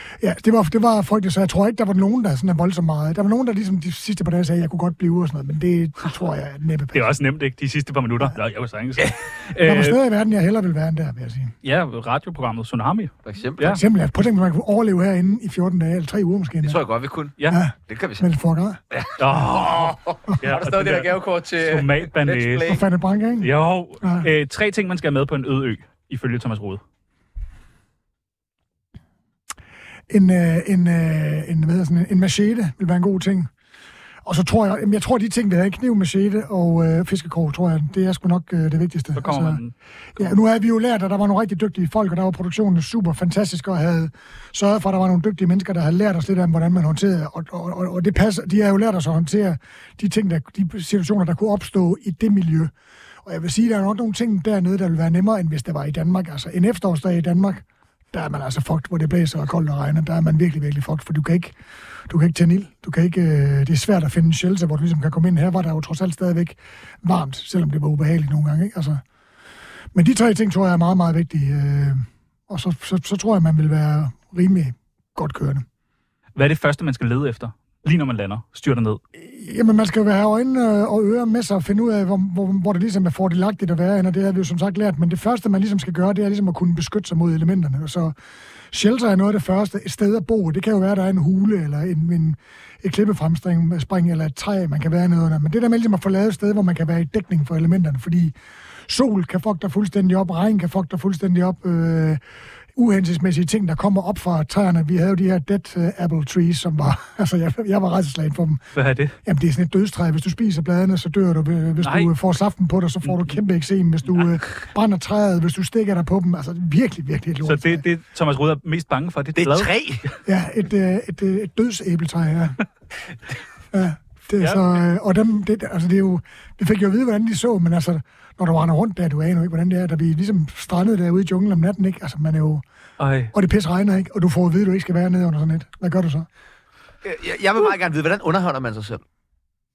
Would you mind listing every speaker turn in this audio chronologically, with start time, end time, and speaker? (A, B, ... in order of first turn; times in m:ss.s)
0:00.2-0:07.1 A
0:06.9-0:10.0 B
0:09.6-0:11.5 A
0:11.6-0:13.8 B
0:13.2-0:13.8 C
0:13.7-0:16.8 A
0:16.6-0:17.3 C
0:17.5-0:18.8 A
0:17.9-0:18.2 C
0:18.9-0:22.8 C
0:19.2-0:22.7 B
0:22.6-0:23.5 A
0:23.4-0:26.8 B
0:24.0-0:24.3 A
0:30.1-0:33.5 A
0:34.2-0:39.6 A
0:39.2-0:40.2 B
0:40.2-0:52.7 A
0:53.2-1:01.6 A
1:02.1-1:09.0 A
1:09.9-1:15.6 A
1:16.4-1:19.0 B
1:19.2-1:28.1 A
1:28.7-1:38.4 A
1:38.9-1:42.2 A
1:42.8-1:48.6 A
1:48.7-1:49.2 B
1:49.2-1:57.8 A
1:51.8-1:52.1 B
1:53.0-1:53.4 B
1:57.4-1:59.7 B
1:59.4-2:00.0 C
2:00.2-2:02.6 A
2:03.7-2:12.6 A
2:04.4-2:04.6 B
2:13.0-2:13.3 B
2:13.3-2:16.2 A
2:17.0-2:19.0 C